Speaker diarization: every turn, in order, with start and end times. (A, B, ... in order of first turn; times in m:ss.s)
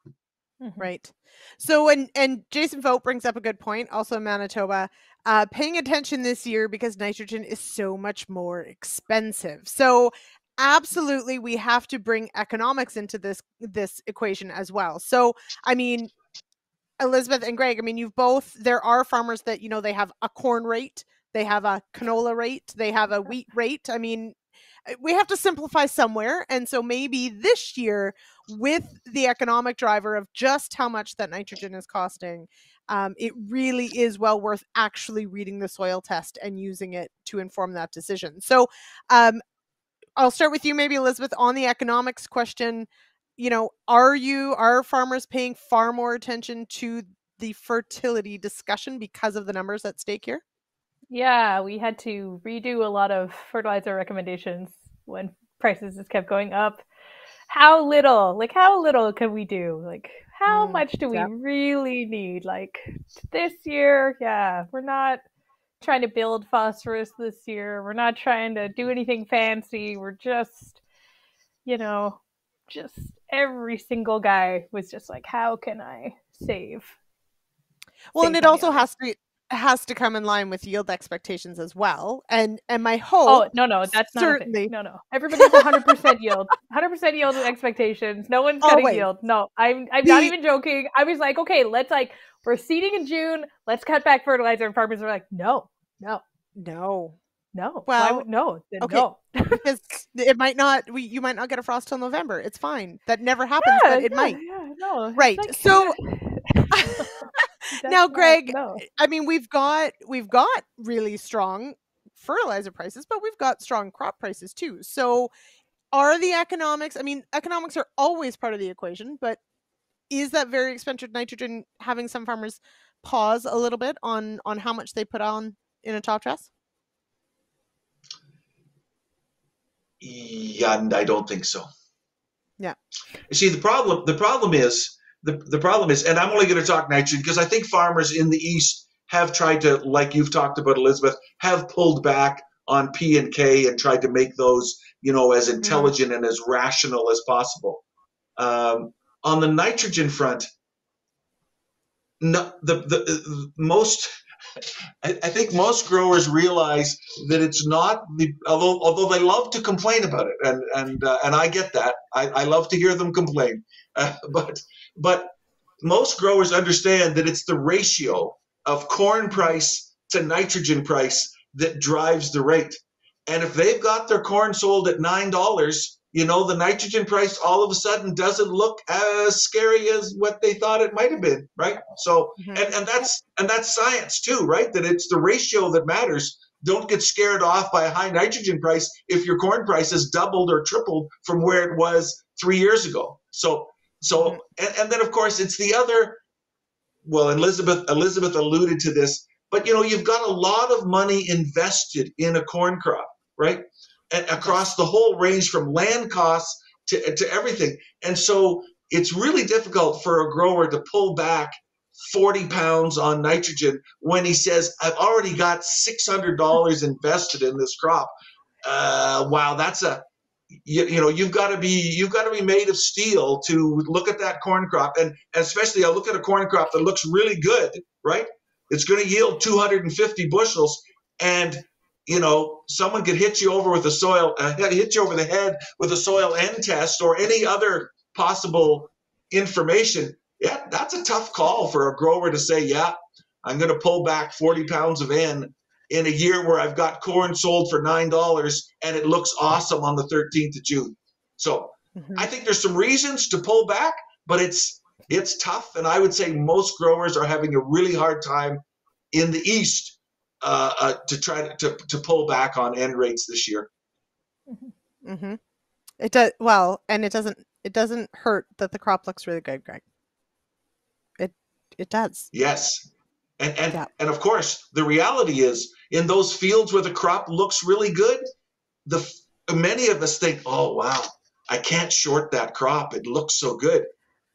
0:00.6-0:00.9 A
0:00.8-0:16.1 B
0:17.0-0:24.4 B
0:24.9-0:39.4 B
0:40.2-0:50.4 B
0:51.1-0:56.8 A
0:57.5-1:05.2 A
1:00.5-1:01.3 B
1:05.8-1:10.8 A
1:11.6-1:16.9 A
1:18.1-1:24.7 B
1:18.2-1:18.9 A
1:23.2-1:36.2 A
1:25.4-1:25.9 B
1:28.6-1:29.1 B
1:30.0-1:30.3 B
1:36.6-1:37.2 B
1:37.5-1:39.6 A
1:37.9-1:38.3 B
1:38.8-1:44.4 B
1:43.6-1:48.8 A
1:45.2-1:46.0 B
1:46.7-1:55.3 B
1:55.9-1:59.4 B
2:00.1-2:06.5 B
2:10.0-2:11.7 C
2:13.3-2:27.8 C
2:25.6-2:25.9 B
2:28.4-2:30.5 C
2:32.2-2:34.1 C
2:35.0-2:45.3 C
2:45.8-3:16.2 C
3:02.4-3:02.7 B
3:17.0-3:38.1 C
3:38.6-3:40.0 C
3:40.6-4:18.6 C
4:12.0-4:12.3 B
4:19.1-4:23.7 C
4:25.0-4:25.4 B
4:26.0-4:29.8 B
4:31.2-4:32.3 B
4:32.3-4:32.9 C
4:33.4-4:38.2 C
4:38.9-4:43.9 C